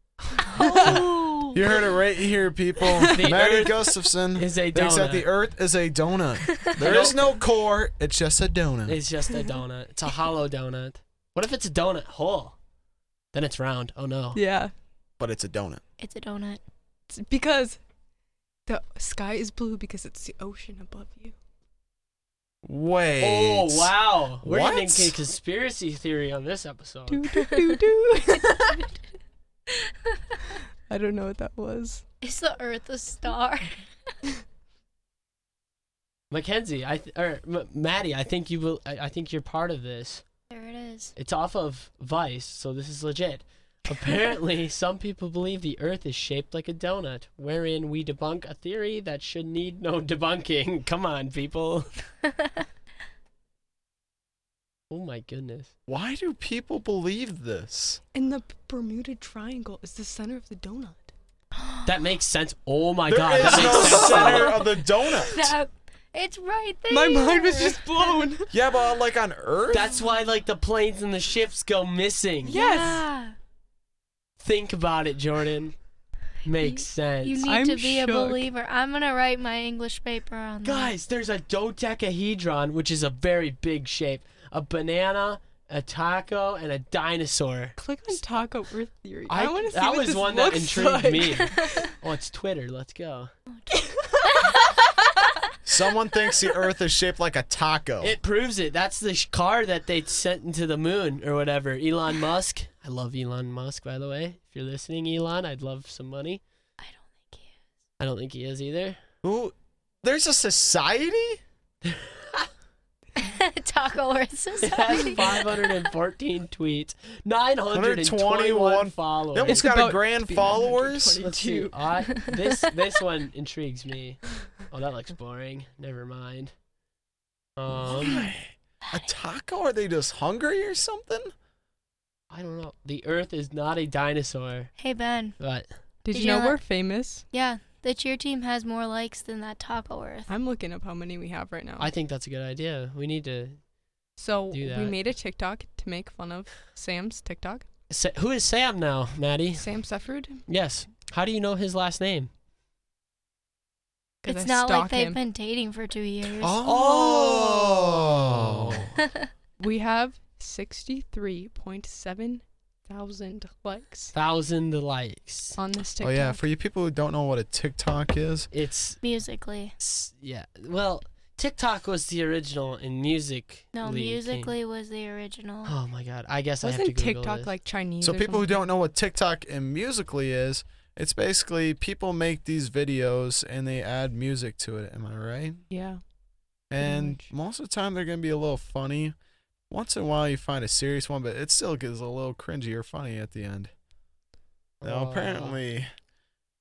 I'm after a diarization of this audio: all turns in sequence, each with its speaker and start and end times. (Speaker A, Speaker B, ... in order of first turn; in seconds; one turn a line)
Speaker A: 0.3-1.0
Speaker B: 0.5-1.5
Speaker C: 1.5-9.0
Speaker A: 2.8-3.4
Speaker D: 3.1-5.3
Speaker D: 6.8-7.4
Speaker D: 8.9-12.6
Speaker D: 13.3-14.4
Speaker A: 14.3-14.7
Speaker C: 15.2-15.8
Speaker B: 16.0-16.6
Speaker A: 17.1-17.8
Speaker A: 18.7-21.4
Speaker C: 22.6-25.2
Speaker D: 23.2-27.4
Speaker A: 27.1-28.8
Speaker B: 29.8-30.4
Speaker A: 30.9-32.0
Speaker B: 32.2-33.9
Speaker D: 36.3-40.2
Speaker B: 40.5-41.1
Speaker D: 41.2-51.9
Speaker D: 54.9-55.7
Speaker C: 55.9-58.0
Speaker A: 58.1-61.1
Speaker B: 61.6-61.9
Speaker D: 61.9-64.6
Speaker C: 63.1-65.5
Speaker A: 63.4-64.5
Speaker B: 65.1-68.2
Speaker A: 66.9-68.5
Speaker C: 68.5-70.0
Speaker D: 69.7-72.6
Speaker A: 72.5-73.0
Speaker B: 72.5-73.4
Speaker D: 74.4-75.8
Speaker D: 76.4-77.5
Speaker B: 76.6-80.9
Speaker A: 77.4-78.5
Speaker D: 80.6-88.2
Speaker A: 87.8-91.7
Speaker D: 89.3-93.3
Speaker B: 93.5-94.6
Speaker A: 94.0-94.5
Speaker C: 95.7-98.2
Speaker D: 98.0-106.4
Speaker B: 106.8-107.5
Speaker D: 108.0-109.0
Speaker C: 109.2-111.4
Speaker D: 111.8-112.5
Speaker B: 113.2-115.5
Speaker D: 114.6-119.7
Speaker C: 117.7-121.2
Speaker A: 119.5-121.9
Speaker D: 121.2-126.5
Speaker D: 127.6-128.3
Speaker C: 127.7-131.3
Speaker D: 132.3-134.7
Speaker B: 134.8-135.4
Speaker D: 135.4-135.7
Speaker A: 136.0-137.2
Speaker B: 136.1-136.6
Speaker B: 137.3-140.3
Speaker A: 140.3-141.9
Speaker D: 141.8-143.7
Speaker A: 144.2-147.7
Speaker D: 144.5-145.0
Speaker D: 147.9-149.7
Speaker A: 149.6-150.4
Speaker D: 150.5-152.3
Speaker A: 154.2-155.2
Speaker B: 154.2-156.6
Speaker C: 156.4-158.9
Speaker D: 156.6-159.0
Speaker A: 159.6-164.1
Speaker D: 164.1-165.6
Speaker A: 165.6-166.4
Speaker C: 166.0-168.5
Speaker D: 168.5-169.0
Speaker B: 169.0-169.8
Speaker D: 169.8-174.5
Speaker B: 173.7-175.7
Speaker D: 175.7-177.5
Speaker A: 176.6-178.6
Speaker C: 178.0-185.6
Speaker A: 185.7-186.0
Speaker C: 186.7-189.2
Speaker A: 186.8-187.3
Speaker C: 189.7-193.7
Speaker D: 194.8-195.6
Speaker C: 194.8-195.9